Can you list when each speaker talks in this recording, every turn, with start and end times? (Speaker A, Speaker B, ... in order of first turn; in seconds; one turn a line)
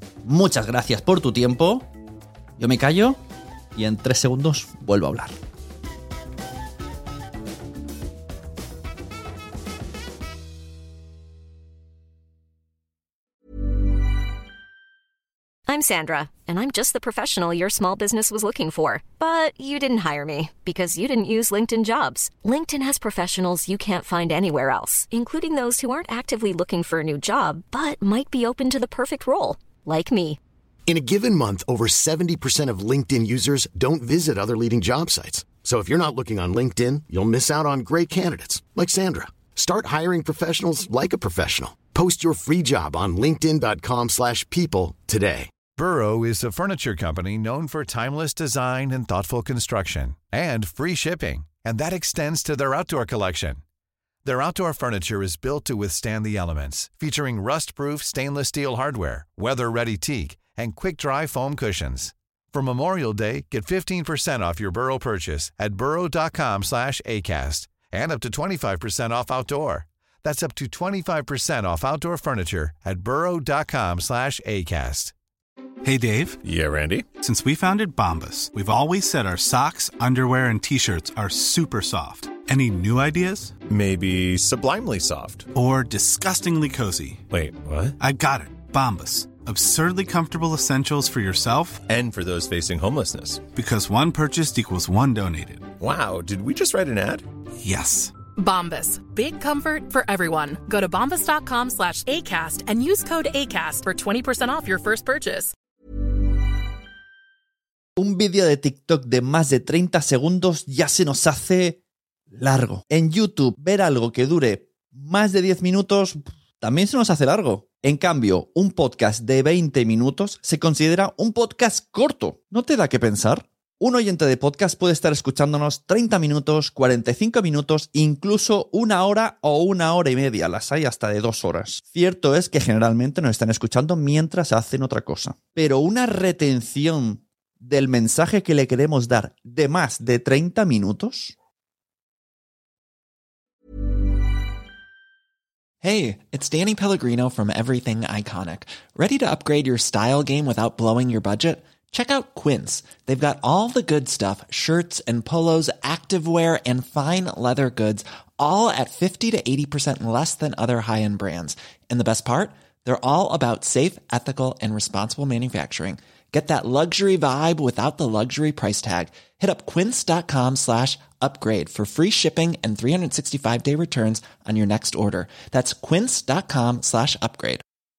Speaker A: 0.2-1.9
Speaker A: 2.6-3.2
Speaker A: 3.8-5.3
Speaker B: 15.7-30.4
Speaker C: 30.9-45.5
Speaker D: 45.8-53.6
Speaker D: 54.2-75.1
Speaker E: 75.9-76.3
Speaker F: 76.4-77.1
Speaker E: 77.2-83.5
Speaker F: 83.7-85.5
Speaker E: 85.6-87.2
Speaker F: 87.3-88.0
Speaker E: 88.0-91.8
Speaker F: 91.9-93.4
Speaker E: 93.6-95.7
Speaker F: 95.8-97.3
Speaker E: 97.6-98.1
Speaker G: 98.3-105.5
Speaker A: 108.0-111.8
Speaker A: 112.3-141.3
Speaker H: 145.8-177.6